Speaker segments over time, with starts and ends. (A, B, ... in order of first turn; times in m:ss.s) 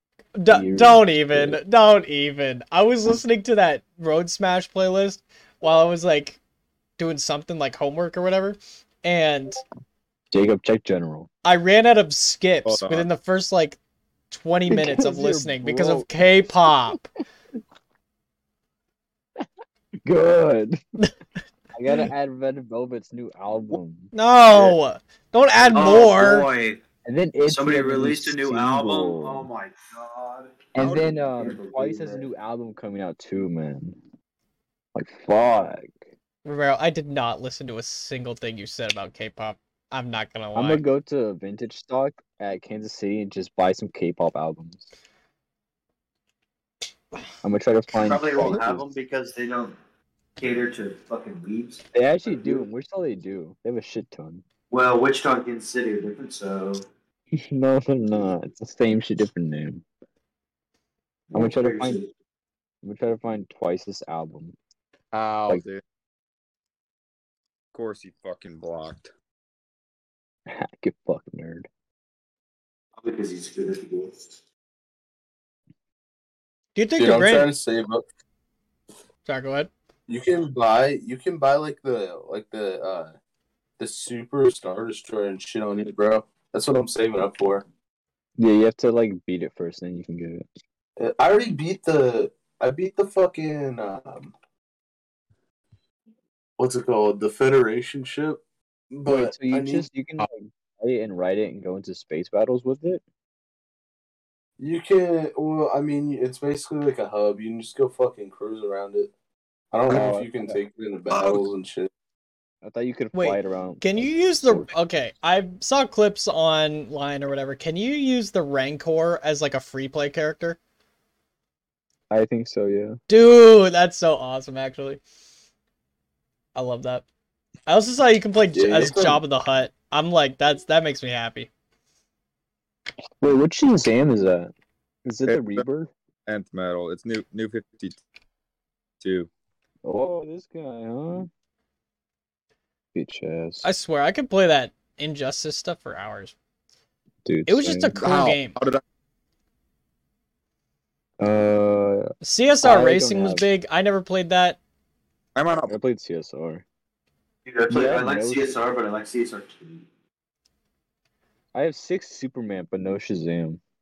0:00.4-0:06.4 A
0:00.5-0:01.6 B
0:07.0-0:09.6 A
0:10.3-0:11.3 B
0:11.4-0:13.8 A
0:12.7-0:13.1 C
0:14.3-0:17.0 A
0:14.7-0:17.0 B
0:20.0-0:20.8 B
0:21.7-0:24.1 B
0:24.1-0:26.5 A
0:25.7-0:26.0 B
0:25.7-0:26.8 D
0:27.0-0:29.5 B
0:27.5-0:32.3 D
0:30.7-0:34.0 B
0:35.0-0:36.0 B
0:36.4-0:40.8 A
0:40.6-0:44.9 B
0:47.4-0:48.9 B
0:48.0-0:49.8 D
0:50.4-0:52.5 D
0:51.9-0:54.4 B
0:54.7-0:56.8 D
0:57.3-0:59.8 B
1:01.3-1:02.1 D
1:01.3-1:02.0 B
1:02.8-1:04.6 B
1:05.1-1:05.8 C
1:07.7-1:09.1 C
1:10.5-1:11.7 B
1:13.0-1:14.3 D
1:16.8-1:17.5 A
1:17.0-1:18.1 E
1:19.3-1:19.7 A
1:20.1-1:23.1 E
1:23.8-1:27.6 E
1:28.4-1:30.5 B
1:31.0-1:34.3 E
1:36.6-1:40.3 E
1:39.1-1:43.0 B
1:44.6-1:49.1 E
1:49.7-1:51.9 E
1:49.9-1:50.6 B
1:52.6-1:54.7 B
1:53.1-2:00.6 A
2:02.1-2:03.0 B
2:03.1-2:05.0 A
2:06.6-2:07.0 A
2:07.7-2:11.5 A
2:08.5-2:09.2 E
2:08.8-2:09.2 B
2:13.2-2:14.5 B
2:15.0-2:15.9 B
2:15.3-2:15.6 C
2:16.3-2:18.0 C
2:19.0-2:19.3 C
2:19.8-2:21.3 B
2:22.9-2:23.6 B
2:23.6-2:26.4 A
2:27.2-2:27.9 B
2:27.5-2:28.6 A
2:28.0-2:28.8 C
2:31.2-2:32.1 B
2:32.2-2:34.6 A
2:32.6-2:33.5 B
2:35.4-2:35.7 C
2:35.7-2:36.6 B
2:37.5-2:39.8 D
2:37.7-2:38.6 B
2:41.5-2:43.6 B